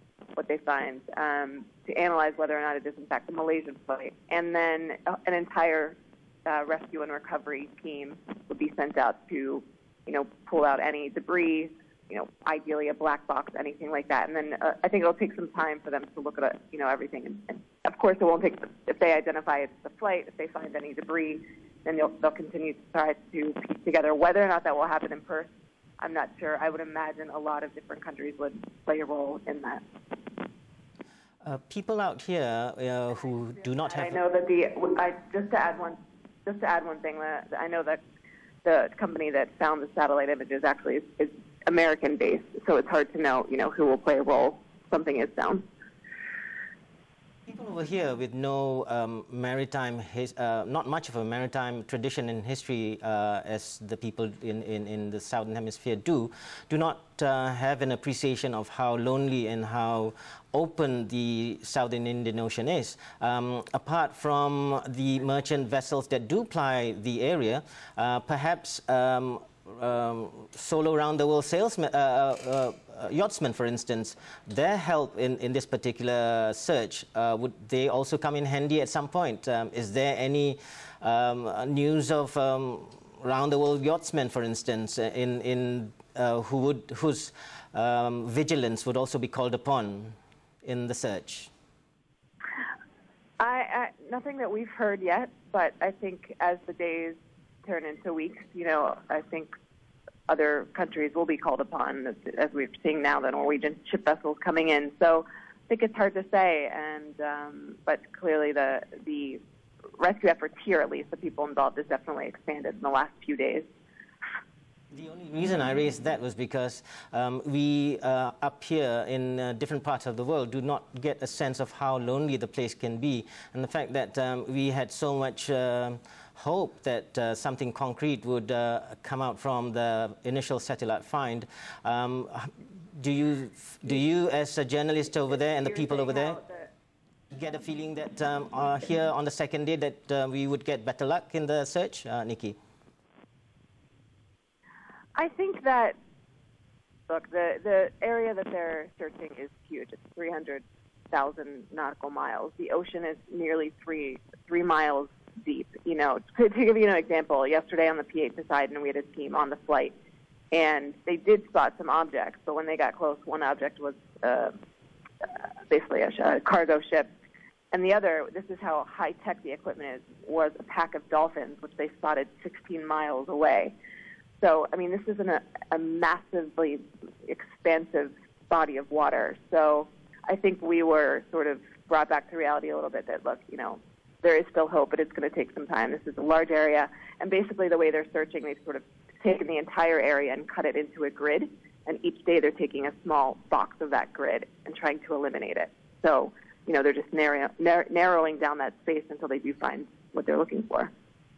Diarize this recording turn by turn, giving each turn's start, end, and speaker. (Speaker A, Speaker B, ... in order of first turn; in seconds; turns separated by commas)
Speaker A: 0.4-29.8, Speaker B: 31.4-34.2, Speaker A: 33.9-38.0, Speaker A: 38.6-45.7, Speaker B: 47.5-91.5, Speaker A: 93.4-99.5, Speaker A: 100.3-109.4, Speaker A: 110.0-113.7, Speaker B: 114.9-136.4, Speaker A: 135.4-136.7, Speaker B: 137.3-142.6, Speaker A: 145.2-146.0, Speaker A: 147.1-159.9, Speaker A: 160.5-164.5, Speaker A: 165.2-167.1, Speaker A: 167.7-173.7, Speaker A: 174.4-200.9